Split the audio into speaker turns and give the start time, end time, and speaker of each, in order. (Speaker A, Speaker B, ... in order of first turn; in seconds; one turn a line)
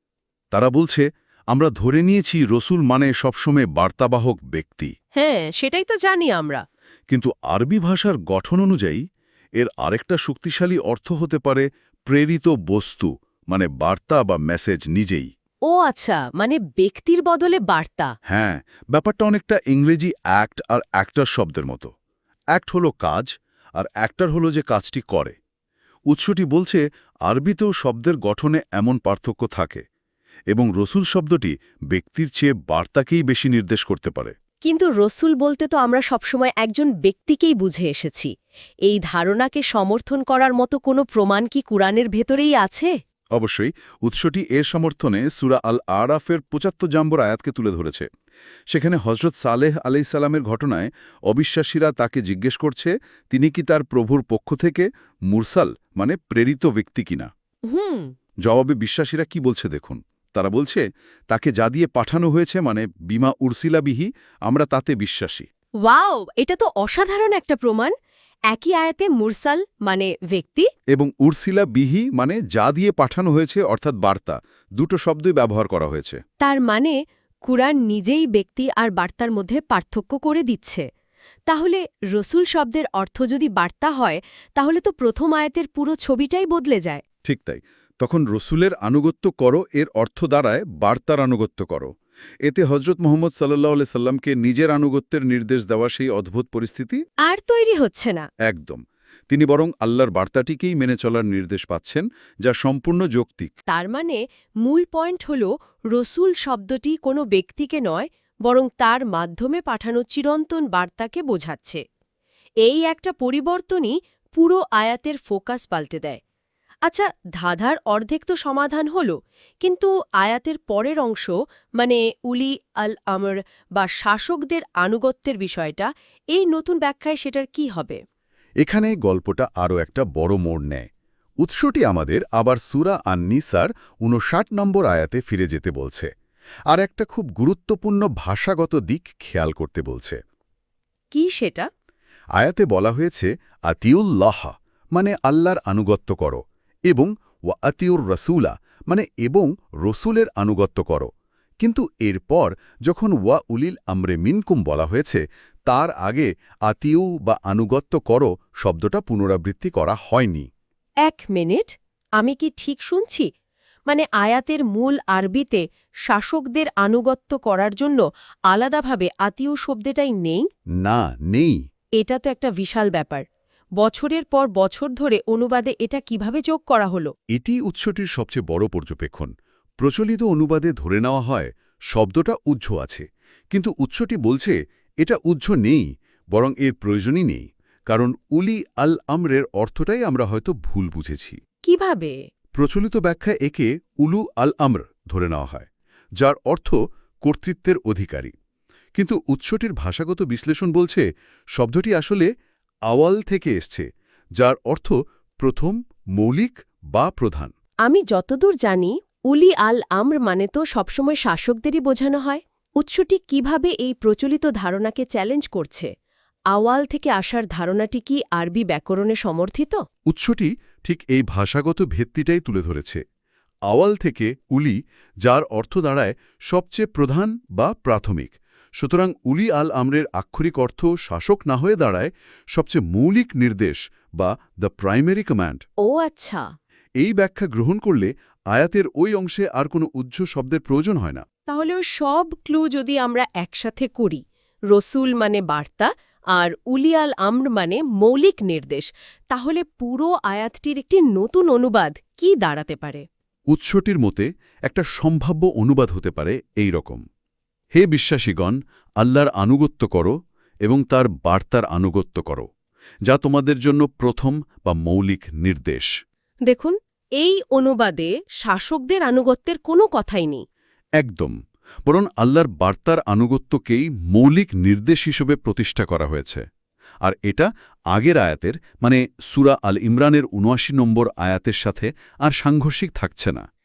Speaker A: 0.5-4.9
Speaker B: 5.2-6.6
Speaker A: 7.1-9.0
Speaker A: 9.6-15.3
Speaker B: 15.7-18.1
Speaker A: 18.3-21.9
Speaker A: 22.5-25.4
Speaker A: 26.1-29.8
Speaker A: 30.5-34.3
Speaker B: 34.6-38.3
Speaker B: 38.9-42.9
Speaker A: 43.4-48.1
Speaker A: 48.7-57.3
Speaker B: 57.7-58.1
Speaker A: 58.4-65.5
Speaker B: 65.8-67.9
Speaker B: 68.5-70.7
Speaker A: 70.9-76.2
Speaker B: 76.4-80.8
Speaker B: 81.5-87.0
Speaker A: 87.2-91.9
Speaker A: 92.4-97.0
Speaker B: 97.2-98.2
Speaker A: 98.5-103.5
Speaker B: 103.7-111.8
Speaker B: 112.6-116.2
Speaker B: 116.9-128.0
Speaker A: 128.6-130.8
Speaker A: 131.4-136.1
Speaker A: 136.7-140.2
Speaker B: 141.1-141.7
Speaker A: 142.4-151.1
Speaker A: 151.6-160.5
Speaker B: 161.0-163.3
Speaker B: 163.9-170.4
Speaker A: 170.8-171.6
Speaker B: 172.0-173.2
Speaker B: 173.8-177.1
Speaker A: 177.3-191.4
Speaker B: 191.7-192.1
Speaker A: 192.6-195.7
Speaker A: 196.2-198.3
Speaker A: 198.9-202.3
Speaker A: 202.9-203.9
Speaker A: 204.4-207.5
Speaker B: 207.8-215.9
Speaker B: 216.5-219.8
Speaker A: 220.1-223.0
Speaker A: 223.7-235.6
Speaker B: 235.8-236.4
Speaker A: 237.0-241.2
Speaker B: 241.5-253.0
Speaker A: 253.5-257.0
Speaker A: 257.7-260.1
Speaker A: 260.6-262.5
Speaker A: 263.1-265.9
Speaker B: 266.5-270.4
Speaker A: 271.0-271.3
Speaker A: 271.9-276.4
Speaker A: 277.0-283.4